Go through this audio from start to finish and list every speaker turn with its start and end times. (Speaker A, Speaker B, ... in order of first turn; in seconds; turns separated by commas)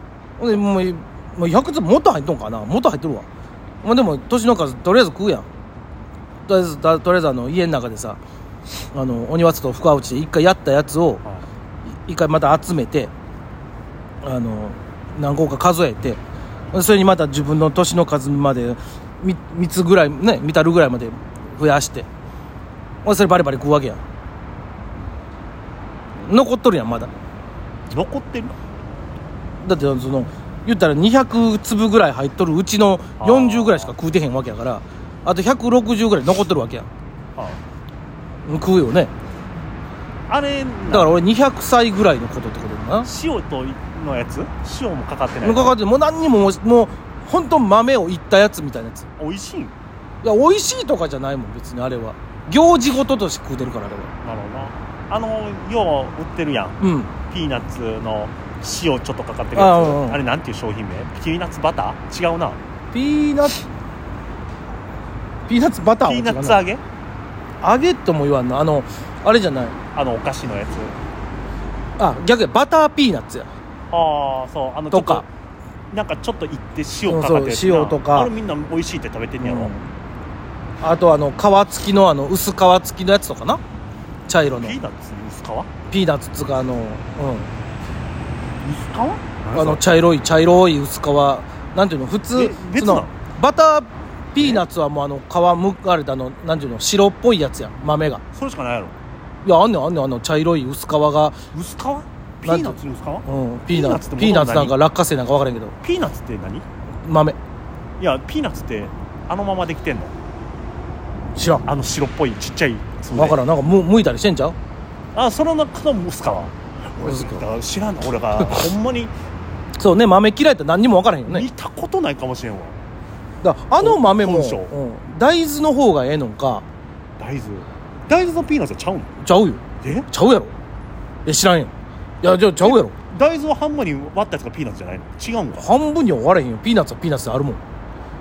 Speaker A: 0.4-3.3, Speaker A: 3.8-5.5, Speaker A: 6.5-8.2, Speaker A: 8.9-11.2, Speaker A: 12.1-13.1, Speaker A: 14.2-16.2, Speaker A: 16.7-22.1, Speaker A: 23.0-24.0, Speaker A: 26.2-27.1, Speaker B: 27.9-28.6, Speaker A: 29.6-36.9, Speaker B: 33.2-34.0, Speaker A: 38.5-39.1, Speaker B: 40.3-41.2, Speaker A: 40.9-43.1, Speaker B: 43.0-45.8, Speaker A: 45.4-49.1, Speaker B: 49.2-49.7, Speaker A: 50.2-54.1, Speaker B: 54.2-62.6, Speaker A: 56.8-57.2, Speaker A: 59.5-60.2, Speaker A: 62.9-63.6, Speaker A: 65.5-66.6, Speaker B: 66.0-66.8, Speaker A: 67.6-69.8, Speaker B: 69.9-71.0, Speaker A: 72.0-73.5, Speaker B: 73.9-75.2, Speaker A: 74.9-75.3, Speaker B: 75.9-79.7, Speaker A: 77.1-78.3, Speaker A: 79.4-79.8, Speaker A: 80.8-83.6, Speaker A: 84.3-84.8, Speaker B: 84.4-85.7, Speaker A: 85.9-87.5, Speaker B: 88.6-89.8, Speaker A: 89.5-98.2, Speaker B: 92.3-93.2, Speaker B: 94.4-94.6, Speaker B: 98.3-99.0, Speaker A: 99.4-101.4, Speaker B: 101.5-104.8, Speaker A: 102.4-105.7, Speaker B: 105.8-106.7, Speaker A: 107.0-107.4, Speaker B: 108.0-110.1, Speaker A: 111.4-111.7, Speaker B: 111.7-113.4, Speaker A: 113.1-114.6, Speaker B: 115.1-119.1, Speaker A: 117.0-117.4, Speaker A: 119.8-121.5, Speaker B: 121.2-122.8, Speaker A: 123.4-126.7, Speaker B: 123.8-124.7, Speaker B: 127.2-129.1, Speaker A: 129.2-130.6, Speaker B: 129.8-130.1, Speaker A: 131.2-131.7, Speaker A: 132.2-133.0, Speaker B: 132.6-135.7, Speaker A: 135.6-137.6